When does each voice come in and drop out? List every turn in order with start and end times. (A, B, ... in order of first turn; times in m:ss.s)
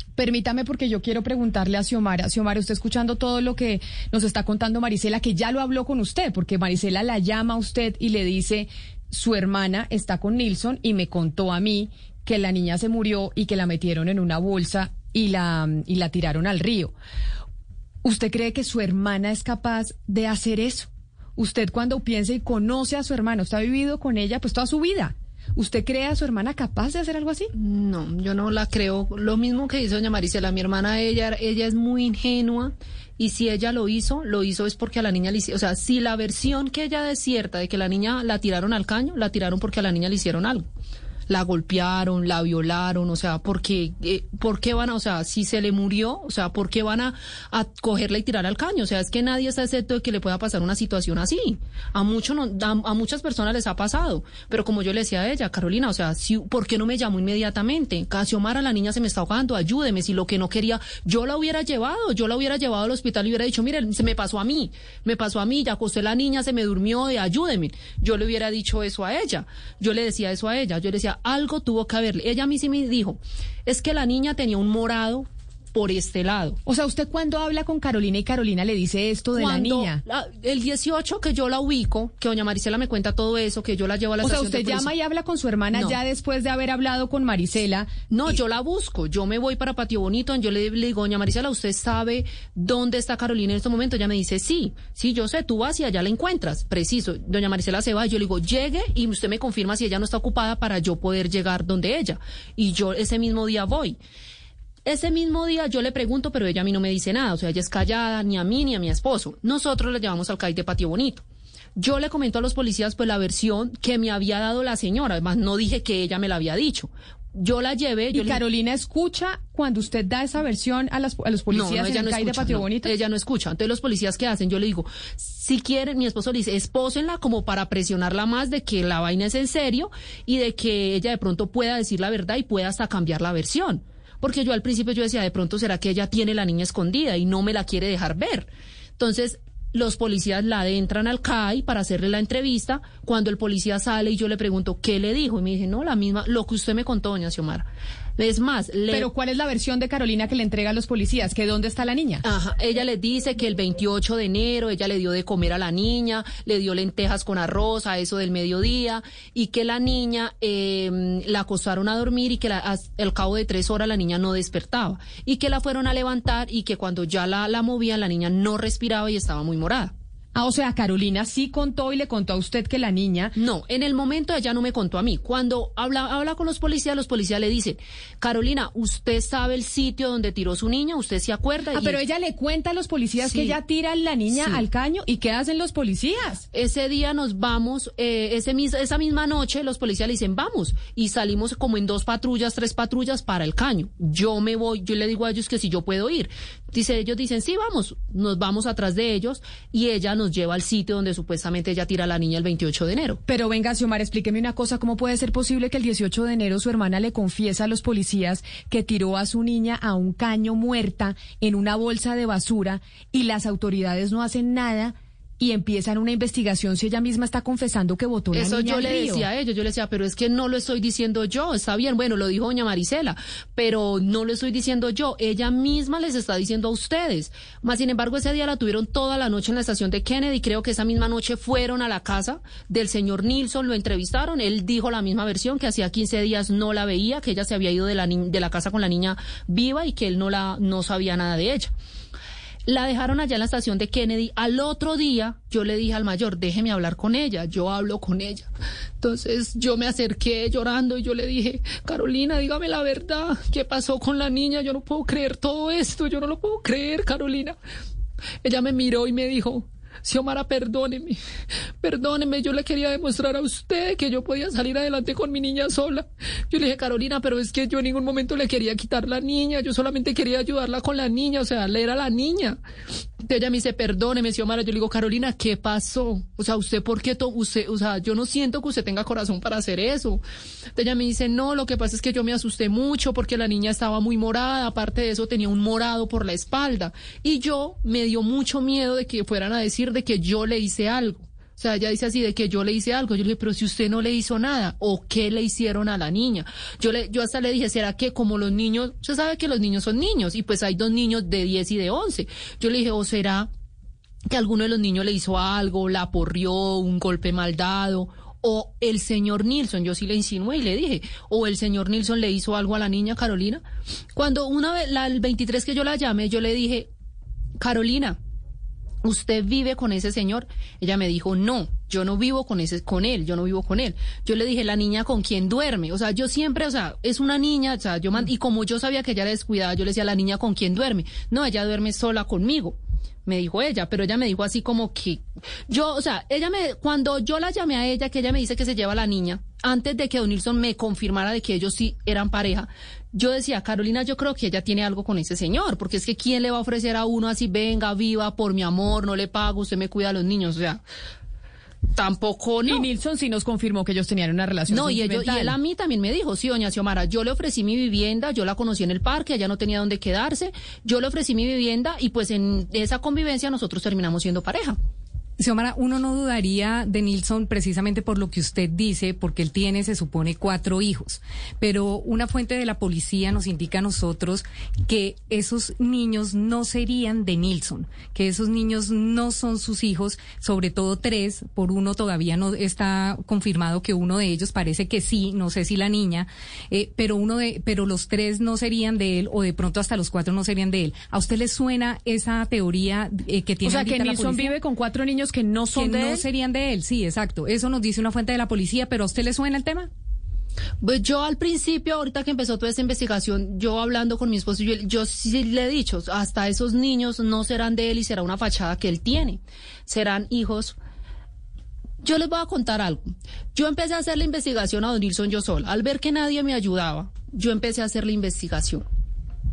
0:00.2-0:16.9 A
0:18.0-0:27.5 A
0:27.5-0:40.6 B
0:41.3-1:16.6 B
1:16.6-1:20.0 A
1:19.3-1:24.9 B
1:24.2-1:27.9 A
1:25.7-1:26.0 B
1:28.1-1:44.0 B
1:44.8-1:51.2 B
1:51.8-1:58.4 B
1:58.1-2:02.9 A
2:01.5-2:27.6 B
2:28.2-2:29.1 B
2:28.9-2:32.2 A
2:32.2-2:49.9 B
2:50.3-2:53.4 A
2:53.4-3:02.0 B
3:01.7-3:06.4 A
3:03.2-3:03.6 B
3:04.3-3:04.6 B
3:06.5-3:23.2 B
3:23.3-3:39.3 A
3:38.3-4:01.7 B
4:02.6-4:08.5 B
4:09.0-4:17.6 B
4:18.4-4:21.2 B
4:21.8-4:32.6 B
4:33.2-4:40.2 B
4:40.8-5:03.5 B
5:04.3-5:13.6 B
5:14.1-5:16.9 B
5:17.6-5:18.2 B
5:19.0-5:50.8 B
5:51.9-5:52.9 B
5:52.7-5:55.5 A
5:54.7-6:04.8 B
6:05.4-6:34.5 C
6:33.6-6:36.2 A
6:35.7-6:39.9 C
6:40.8-6:50.8 B
6:52.0-6:58.8 B